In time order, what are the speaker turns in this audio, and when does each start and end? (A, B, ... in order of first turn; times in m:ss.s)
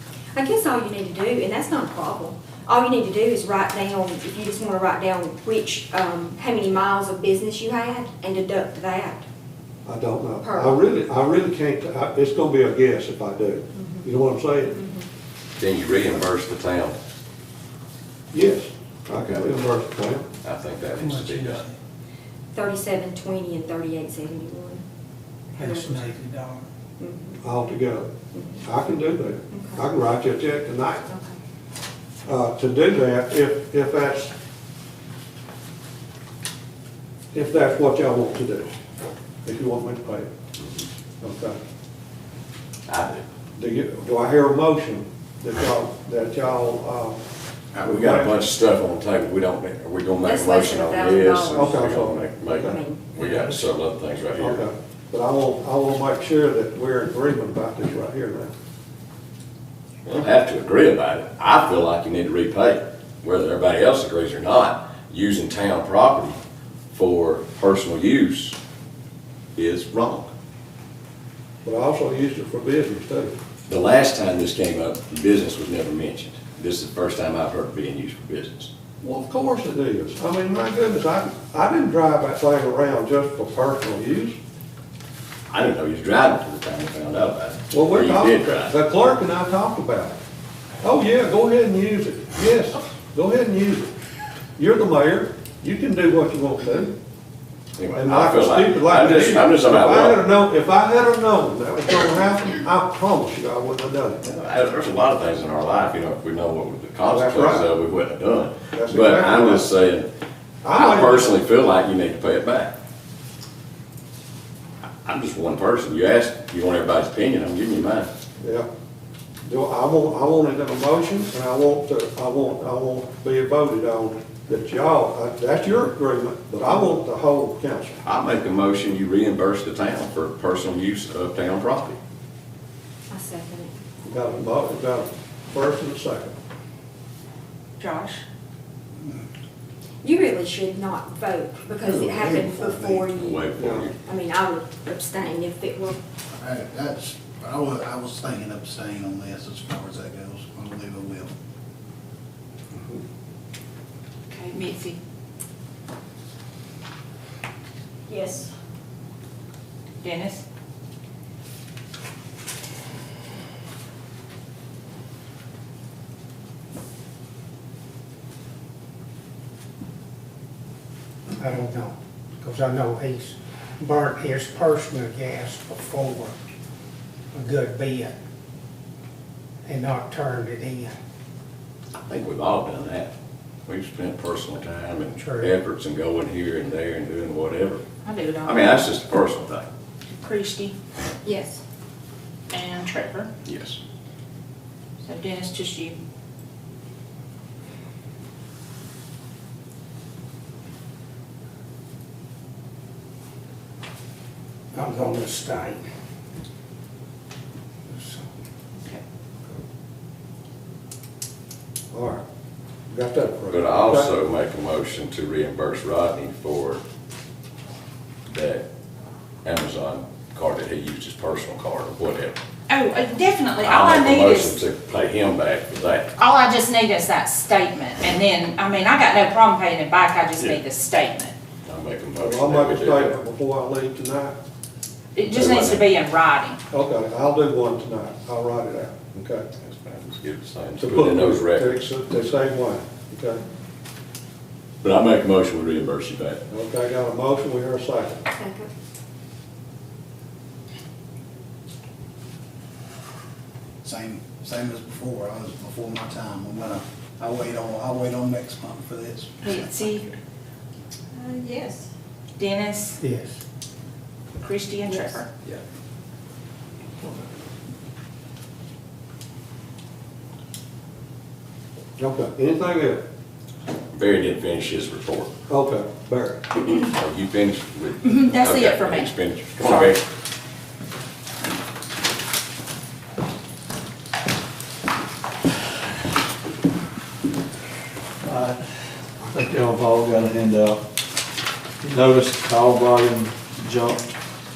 0:00.4-0:09.2 A
0:09.9-0:14.8 B
0:10.4-0:10.7 A
0:13.8-0:14.1 A
0:14.7-0:15.1 A
0:15.6-0:17.0 C
0:18.3-0:20.3 B
0:20.4-0:21.7 C
0:22.5-0:24.8 A
0:25.6-0:26.1 A
0:25.7-0:26.3 D
0:27.0-0:27.4 A
0:27.4-0:28.1 B
0:28.3-0:28.6 A
0:28.6-0:31.1 B
0:29.5-0:29.8 A
0:31.1-0:31.3 A
0:32.2-0:34.3 B
0:37.3-0:38.7 B
0:39.4-0:40.3 B
0:41.2-0:41.6 B
0:42.9-0:43.3 C
0:43.6-0:47.2 B
0:47.8-0:54.7 C
0:47.8-0:48.3 B
0:50.2-0:51.8 A
0:51.5-0:52.8 B
0:52.5-0:53.1 A
0:54.4-0:58.5 B
1:00.0-1:06.4 C
1:06.9-1:08.6 C
1:09.6-1:10.3 C
1:11.6-1:13.4 B
1:13.7-1:18.7 C
1:19.0-1:24.4 B
1:25.5-1:28.8 C
1:27.7-1:30.2 B
1:30.8-1:33.9 B
1:34.6-1:37.0 B
1:37.8-1:40.2 C
1:37.9-1:44.2 B
1:44.2-1:50.1 C
1:47.1-1:47.7 B
1:48.7-1:49.7 B
1:50.6-1:51.4 B
1:50.7-1:52.7 C
1:55.0-1:58.1 C
1:58.4-1:58.7 B
1:59.4-2:08.0 B
2:08.0-2:12.0 C
2:13.1-2:13.7 A
2:14.0-2:16.4 B
2:17.8-2:18.2 A
2:20.0-2:23.5 A
2:21.8-2:23.0 B
2:23.2-2:24.0 C
2:23.6-2:23.9 B
2:24.0-2:26.0 A
2:26.4-2:31.3 E
2:32.7-2:33.0 B
2:34.3-2:35.0 F
2:38.1-2:38.5 A
2:40.0-2:40.4 F
2:51.4-2:56.3 D
2:57.3-2:58.1 D
2:59.7-3:01.0 D
3:02.1-3:03.1 C
3:03.7-3:07.8 C
3:05.2-3:05.5 D
3:08.0-3:08.7 F
3:08.4-3:09.7 C
3:10.1-3:10.8 F
3:11.2-3:11.6 A
3:12.5-3:13.3 F
3:13.4-3:13.8 C
3:15.0-3:16.0 F
3:24.7-3:25.8 D
3:27.9-3:28.2 D
3:31.9-3:32.2 B
3:32.9-3:34.1 B
3:33.5-3:36.8 C
3:38.3-3:38.6 C
3:39.4-3:42.4 C
3:42.7-3:44.6 F
3:43.6-3:46.1 C
3:46.2-3:51.4 F
3:51.6-3:53.1 C
3:52.2-3:54.4 B
3:55.2-3:56.6 F
3:55.3-3:55.8 C
3:55.4-3:55.7 B
3:56.7-3:59.5 B
3:59.6-4:01.7 C
4:00.8-4:03.4 B
4:04.8-4:06.4 C
4:06.5-4:08.2 B
4:08.3-4:08.7 A
4:13.8-4:19.5 E
4:19.4-4:20.1 F
4:21.2-4:21.9 A
4:22.4-4:23.0 F
4:23.0-4:23.4 D
4:24.4-4:25.3 F
4:32.0-4:33.0 B
4:33.9-4:35.3 C
4:35.5-4:36.6 B
4:36.6-4:40.0 C
4:38.0-4:40.0 F
4:48.2-4:48.6 G
4:49.2-4:50.8 G
4:51.8-4:54.1 G